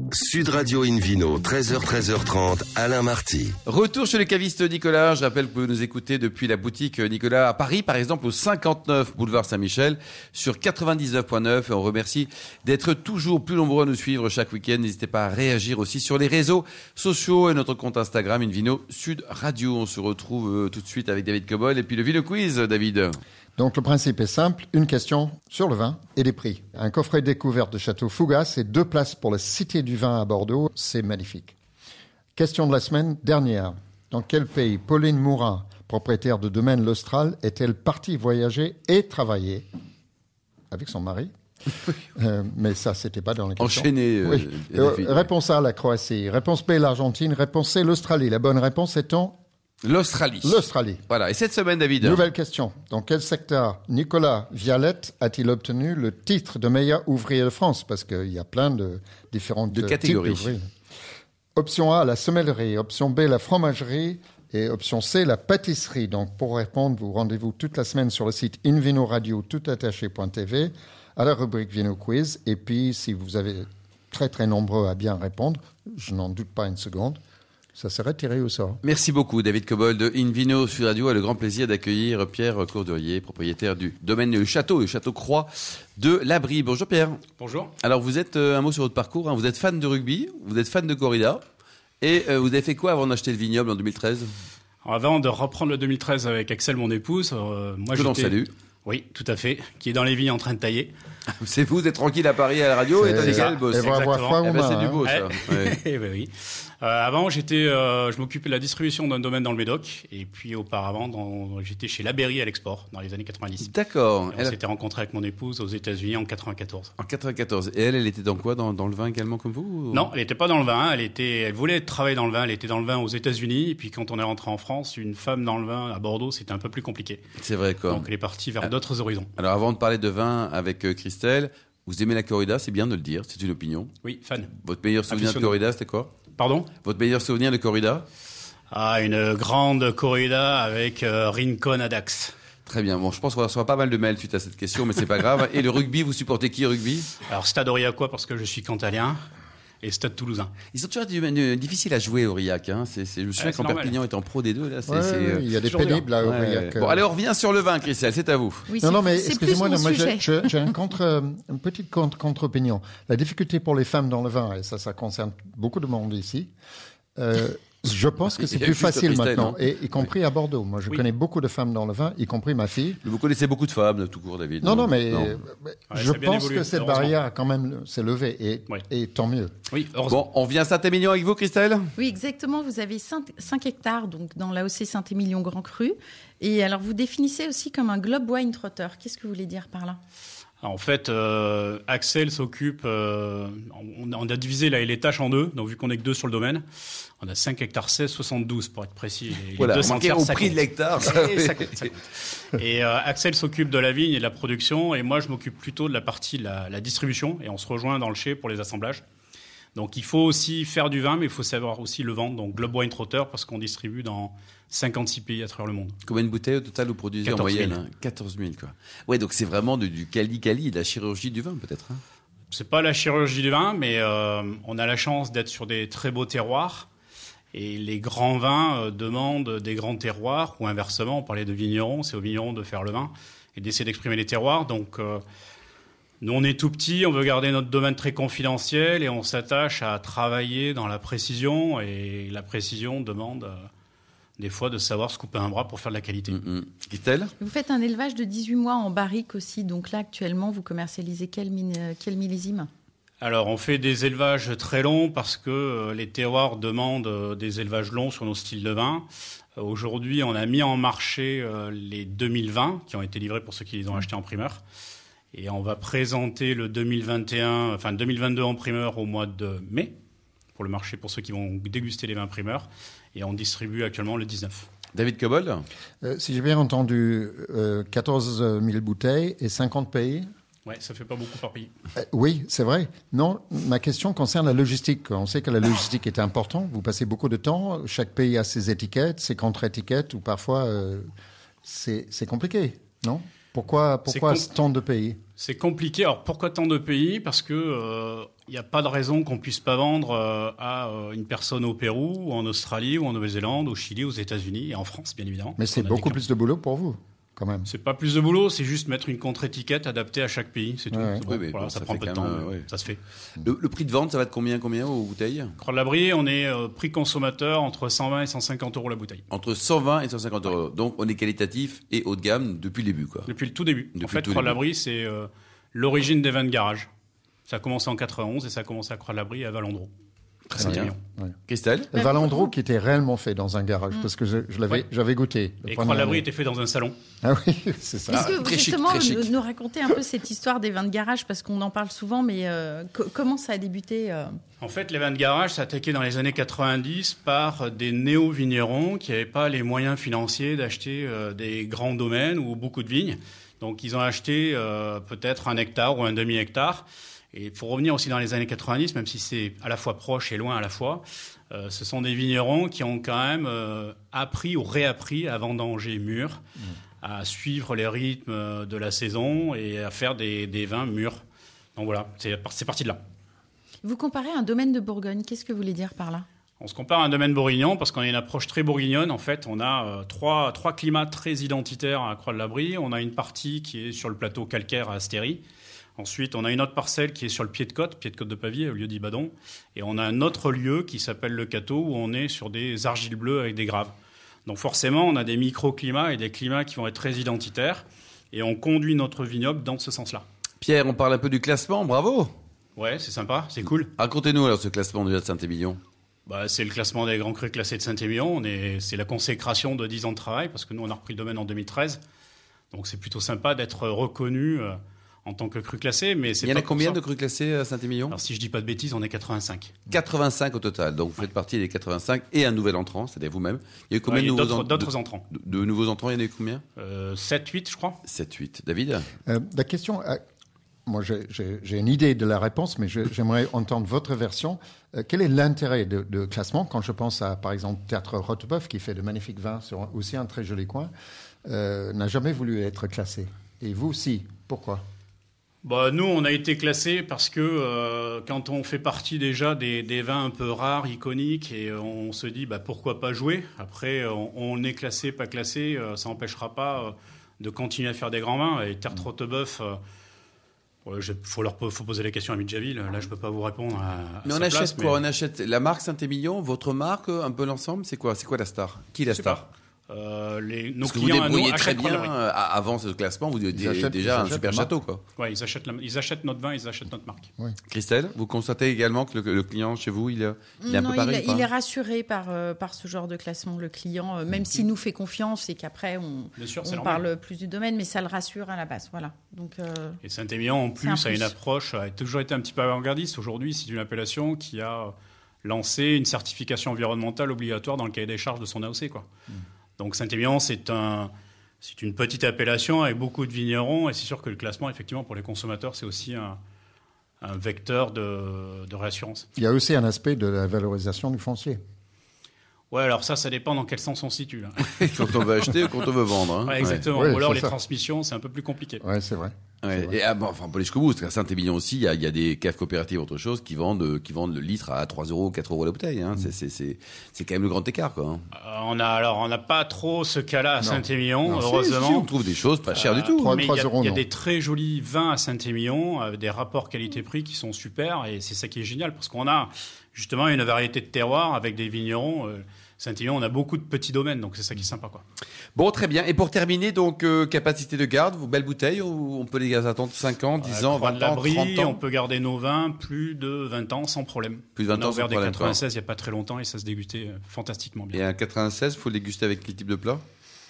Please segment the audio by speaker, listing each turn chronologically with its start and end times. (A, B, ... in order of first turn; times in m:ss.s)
0:00.1-0:03.6 A
0:03.6-0:23.2 B
0:23.6-0:31.6 C
0:32.4-0:39.7 C
0:40.7-0:41.3 C
0:42.2-0:49.4 C
0:43.6-0:45.3 B
0:49.8-0:52.2 B
0:50.4-0:51.0 C
0:52.0-1:00.6 C
0:59.7-1:00.5 B
1:01.6-1:17.2 C
1:17.8-1:18.8 C
1:18.8-1:27.2 B
1:27.4-1:27.7 D
1:27.8-1:31.4 B
1:32.0-1:34.3 B
1:34.8-1:40.9 D
1:37.9-1:38.5 B
1:41.3-1:45.8 B
1:43.0-1:45.0 C
1:43.1-1:44.5 D
1:45.0-1:53.7 D
1:53.6-1:54.6 B
1:54.3-1:56.9 D
1:57.0-2:00.1 B
1:59.9-2:07.2 D
2:07.4-2:08.1 B
2:07.9-2:09.3 D
2:09.4-2:13.9 B
2:14.0-2:14.5 D
2:14.6-2:16.2 B
2:15.1-2:15.6 D
2:16.4-2:16.7 D
2:16.8-2:18.1 B
2:18.7-2:22.4 D
2:22.7-2:27.2 B
2:27.3-2:29.2 D
2:29.8-2:30.5 D
2:30.7-2:35.5 B
2:33.4-2:34.0 D
2:34.9-2:37.0 C
2:35.7-2:36.1 D
2:36.2-2:38.7 B
2:38.7-2:40.4 E
2:38.8-2:46.5 C
2:47.2-2:53.0 C
2:48.4-2:50.0 B
2:53.0-2:55.4 B
2:54.6-2:59.5 C
2:55.9-2:57.2 D
2:59.7-3:00.2 D
3:00.1-3:01.9 B
3:02.0-3:10.0 E
3:10.6-3:16.6 D
3:17.2-3:29.0 D
3:19.6-3:21.9 B
3:29.8-3:36.0 D
3:36.1-3:42.0 B
3:37.2-3:37.8 D
3:42.5-3:46.9 D
3:47.5-3:55.2 D
3:56.2-4:03.7 D
4:04.4-4:06.4 D
4:06.3-4:07.3 B
4:07.4-4:12.7 E
4:13.2-4:19.1 D
4:19.6-4:24.6 D
4:25.3-4:30.0 D
4:30.6-4:34.7 D
4:34.9-4:35.7 B
4:36.0-4:40.3 C
4:40.7-4:41.7 D
4:42.0-4:51.1 C
4:51.6-4:55.2 C
4:54.1-4:54.5 D
4:55.4-5:06.2 D
5:05.6-5:07.7 C
5:07.7-5:13.0 D
5:10.9-5:11.2 C
5:11.3-5:12.7 B
5:13.4-5:15.6 B
5:15.6-5:19.2 D
5:19.3-5:23.3 B
5:23.3-5:26.9 D
5:24.0-5:24.6 B
5:27.5-5:29.9 D
5:30.5-5:30.9 B
5:30.6-5:31.0 D
5:30.6-5:31.3 C
5:31.5-5:32.0 B
5:31.9-5:36.2 C
5:32.0-5:32.5 E
5:35.7-5:36.9 D
5:37.2-5:38.4 C
5:38.1-5:44.4 E
5:38.1-5:39.3 B
5:44.6-6:06.4 D
6:07.0-6:11.2 D
6:11.8-6:13.0 D
6:13.8-6:16.3 E
6:16.6-6:25.4 D
6:26.0-6:33.9 D
6:34.5-6:40.3 D
6:40.6-6:42.3 B
6:42.8-6:43.9 D
6:44.0-6:45.8 B
6:46.3-6:52.0 D
6:52.7-6:57.0 D
6:56.4-6:58.2 B
6:58.1-6:59.7 D
6:59.9-7:06.6 B
7:04.1-7:05.2 D
7:06.8-7:08.0 D
7:08.1-7:09.1 B
7:09.3-7:10.2 C
7:10.9-7:20.9 C
7:21.5-7:24.8 C
7:25.6-7:39.8 D
7:40.9-7:45.0 D
7:44.2-7:49.4 B
7:49.1-7:52.1 D
7:50.8-7:55.0 B
7:53.5-7:54.7 C
7:55.2-7:57.3 D
7:57.7-8:01.5 B
8:00.6-8:10.0 E
8:06.4-8:07.0 D
8:10.0-8:14.9 D
8:10.8-8:11.3 E
8:15.4-8:19.1 D
8:19.8-8:21.1 D
8:21.6-8:26.4 D
8:27.2-8:29.2 D
8:29.4-8:31.6 C
8:32.7-8:35.5 D
8:34.8-8:36.8 B
8:36.4-8:38.8 D
8:36.9-8:37.5 C
8:38.8-8:40.0 C
8:39.6-8:48.2 B
8:48.3-8:52.1 D
8:51.3-8:53.3 B
8:52.7-9:05.0 D
8:53.0-8:54.0 C
9:05.6-9:11.8 B
9:10.4-9:18.0 D
9:14.6-9:15.6 B
9:17.9-9:20.0 B